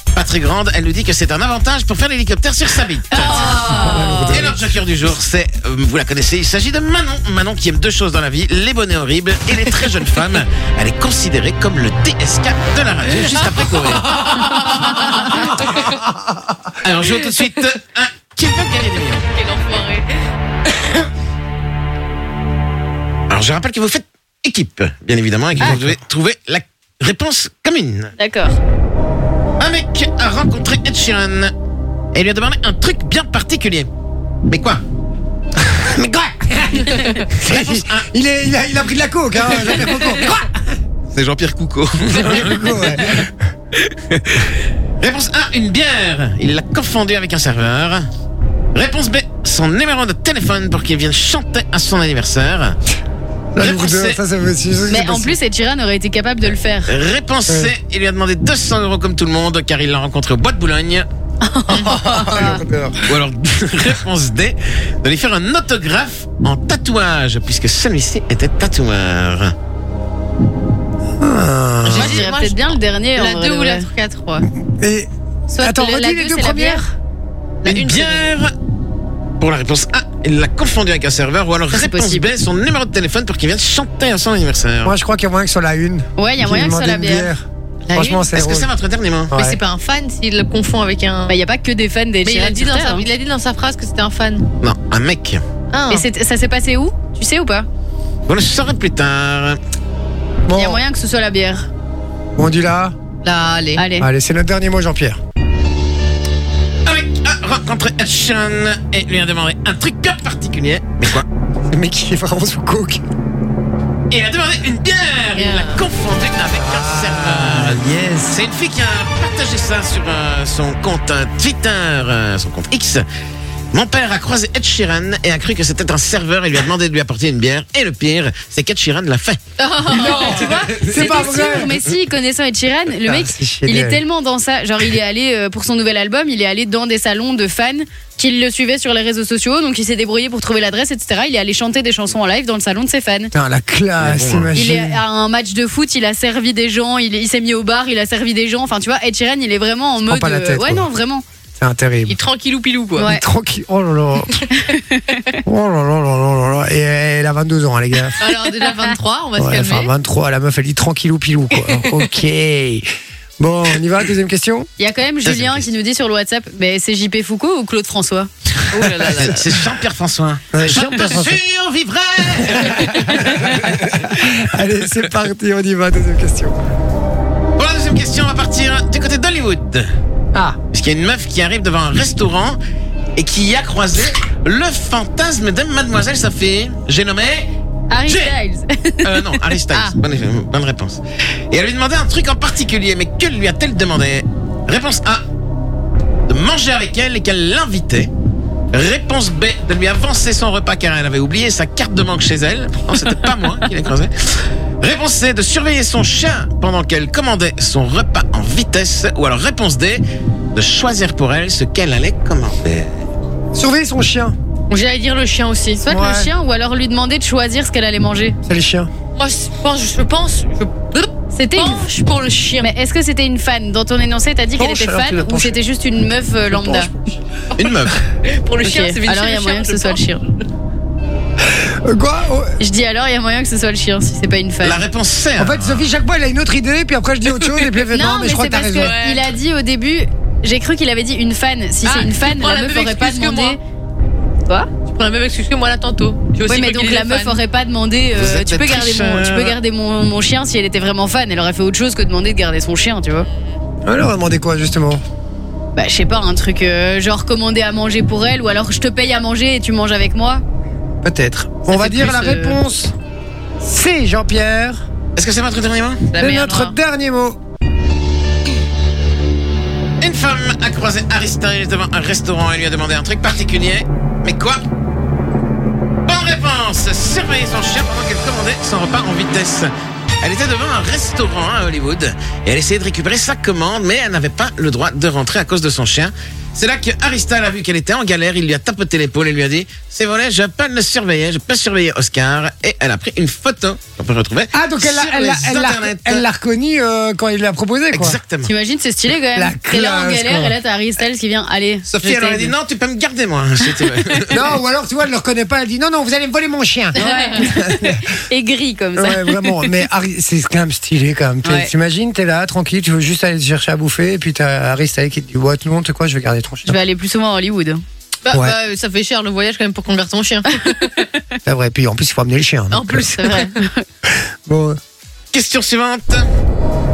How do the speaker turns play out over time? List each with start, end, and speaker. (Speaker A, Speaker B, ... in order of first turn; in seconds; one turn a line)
Speaker A: 0.1-3.7
Speaker B: 3.1-4.4
Speaker C: 3.5-4.6
Speaker A: 4.3-15.8
Speaker C: 14.2-14.8
Speaker C: 15.3-16.7
Speaker A: 16.8-19.3
Speaker B: 19.3-20.2
Speaker A: 23.3-28.1
Speaker C: 25.6-25.9
Speaker D: 28.2-28.5
Speaker A: 29.6-31.5
Speaker A: 32.1-33.9
Speaker A: 34.5-34.8
Speaker C: 35.6-40.5
Speaker A: 37.4-38.1
Speaker A: 41.1-43.2
Speaker C: 42.2-43.3
Speaker A: 43.9-48.0
Speaker A: 48.7-52.8
Speaker C: 53.5-55.4
Speaker A: 53.6-54.2
Speaker D: 54.9-56.9
Speaker A: 56.9-61.1
Speaker C: 57.5-57.7
Speaker D: 61.4-62.6
Speaker C: 61.7-63.1
Speaker A: 63.0-69.5
Speaker C: 71.2-72.2
Speaker D: 71.9-73.9
Speaker B: 71.9-74.5
Speaker C: 74.4-75.1
Speaker D: 75.5-76.9
Speaker C: 75.6-76.9
Speaker A: 77.7-78.5
Speaker B: 77.7-78.0
Speaker A: 79.4-84.9
Speaker D: 81.7-82.3
Speaker C: 84.8-88.7
Speaker D: 86.2-87.3
Speaker B: 87.9-88.3
Speaker A: 88.3-89.3
Speaker C: 89.3-89.6
Speaker B: 89.3-91.3
Speaker D: 91.3-93.0
Speaker B: 92.2-94.5
Speaker A: 94.6-95.4
Speaker B: 95.7-96.0
Speaker D: 95.9-97.7
Speaker A: 98.3-99.6
Speaker C: 100.5-100.8
Speaker D: 100.5-101.7
Speaker C: 102.4-102.9
Speaker B: 103.2-103.8
Speaker D: 103.8-104.1
Speaker C: 104.0-105.2
Speaker A: 106.8-111.2
Speaker C: 111.7-113.0
Speaker A: 114.1-123.0
Speaker B: 115.3-115.8
Speaker C: 116.5-118.4
Speaker A: 123.7-129.4
Speaker D: 129.6-143.3
Speaker B: 129.6-131.5
Speaker C: 129.9-131.8
Speaker C: 133.0-134.0
Speaker C: 143.3-145.0
Speaker A: 144.0-144.5
Speaker D: 144.5-151.2
Speaker C: 150.0-150.9
Speaker C: 151.6-152.2
Speaker B: 152.1-153.1
Speaker D: 153.0-153.2
Speaker C: 153.0-154.4
Speaker D: 154.5-155.4
Speaker C: 155.4-158.2
Speaker B: 158.2-159.9
Speaker C: 159.4-162.8
Speaker C: 163.4-164.7
Speaker D: 164.8-168.3
Speaker A: 165.2-165.7
Speaker B: 168.7-169.4
Speaker A: 169.2-174.4
Speaker C: 170.5-171.4
Speaker C: 172.4-176.6
Speaker A: 177.6-179.9
Speaker A: 180.7-182.6
Speaker A: 183.2-187.5
Speaker D: 187.9-189.4
Speaker A: 188.1-188.3
Speaker A: 189.0-195.2
Speaker A: 196.3-198.1
Speaker A: 198.7-210.0
Speaker A: 210.5-213.0
Speaker C: 213.5-214.3
Speaker B: 214.7-215.8
Speaker D: 215.8-218.4
Speaker C: 215.9-216.3
Speaker C: 218.4-218.9
Speaker B: 219.1-222.7
Speaker D: 221.3-221.9
Speaker D: 222.6-226.9
Speaker C: 224.6-225.6
Speaker C: 226.5-227.2
Speaker B: 227.5-230.0
Speaker A: 227.6-228.0
Speaker D: 228.6-230.2
Speaker C: 231.4-232.6
Speaker D: 232.6-234.8
Speaker A: 234.6-235.9
Speaker C: 235.4-238.9
Speaker D: 237.9-243.6
Speaker B: 238.7-239.3
Speaker B: 241.8-243.6
Speaker B: 244.8-247.4
Speaker D: 246.4-253.3
Speaker A: 248.1-249.6
Speaker C: 253.8-255.0
Speaker D: 255.7-260.4
Speaker C: 261.0-262.9
Speaker D: 261.7-262.6
Speaker C: 263.6-264.9
Speaker A: 265.1-266.1
Speaker B: 266.1-266.7
Speaker C: 266.2-267.4
Speaker A: 270.0-274.6
Speaker A: 276.1-296.2
Speaker C: 294.5-298.2
Speaker A: 297.9-298.5
Speaker D: 298.4-302.5
Speaker C: 299.3-300.6
Speaker A: 301.9-304.4
Speaker C: 304.3-308.1
Speaker D: 306.9-309.7
Speaker C: 308.9-316.8
Speaker D: 311.4-311.7
Speaker D: 316.6-317.8
Speaker B: 318.2-321.0
Speaker C: 318.3-318.6
Speaker C: 321.4-323.1
Speaker B: 322.7-323.6
Speaker D: 323.1-323.8
Speaker C: 324.1-324.8
Speaker A: 325.3-326.3